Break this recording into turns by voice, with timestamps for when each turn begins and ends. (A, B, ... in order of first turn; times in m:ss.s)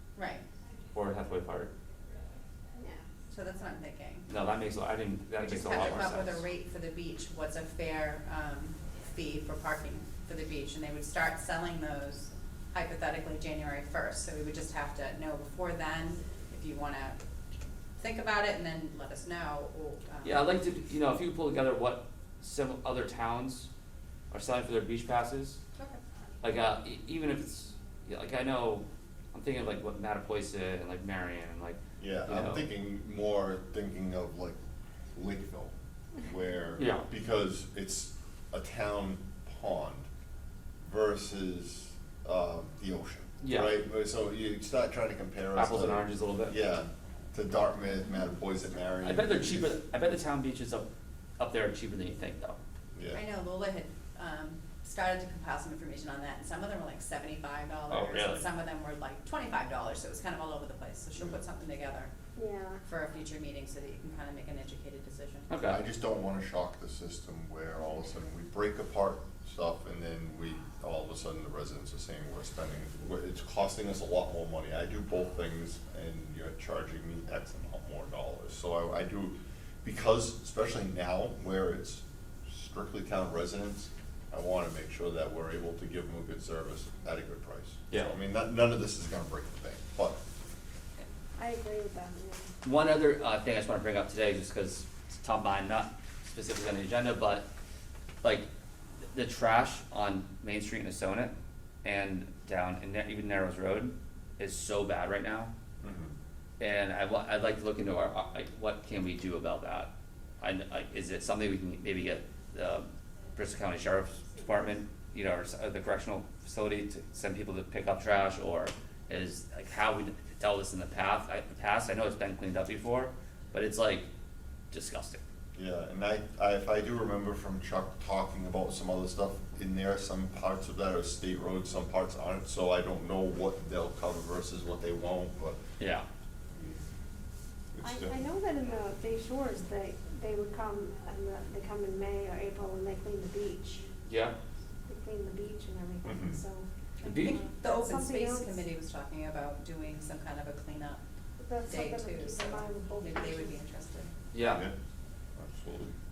0:00.1-0:00.4 A
0:00.9-0:01.7 B
0:03.3-0:04.3 A
0:04.3-0:06.4 B
0:05.4-0:17.2 A
0:18.0-0:20.6 A
0:20.2-0:23.7 B
0:24.3-0:25.6 B
0:25.7-0:26.0 A
0:26.4-0:32.7 B
0:32.0-0:34.6 C
0:35.1-0:40.1 C
0:36.8-0:37.1 B
0:40.8-0:49.8 C
0:43.4-0:43.7 B
0:45.5-0:46.6 B
0:49.0-0:52.6 B
0:52.9-0:53.2 C
0:53.1-1:02.1 A
0:57.9-0:58.4 B
1:02.4-1:02.8 D
1:02.8-1:05.5 A
1:05.5-1:05.8 B
1:05.6-1:30.2 C
1:27.9-1:28.1 B
1:31.4-1:32.5 D
1:32.6-1:37.5 B
1:38.2-1:38.5 B
1:39.1-1:41.3 B
1:41.8-1:45.5 B
1:45.8-1:46.1 C
1:46.6-1:49.9 B
1:50.4-2:04.1 B
2:04.7-2:05.2 B
2:05.5-2:15.6 C
2:15.8-2:16.0 B
2:16.5-2:16.8 C
2:17.7-2:18.3 C
2:17.8-2:23.9 D
2:24.1-2:24.3 B
2:24.9-2:26.7 D
2:26.0-2:26.4 C
2:27.0-2:31.0 A
2:27.0-2:27.4 B
2:27.2-2:28.6 D
2:31.4-2:33.6 D
2:31.6-2:34.1 A
2:34.3-2:34.7 B
2:34.4-2:34.7 C
2:35.4-2:35.9 C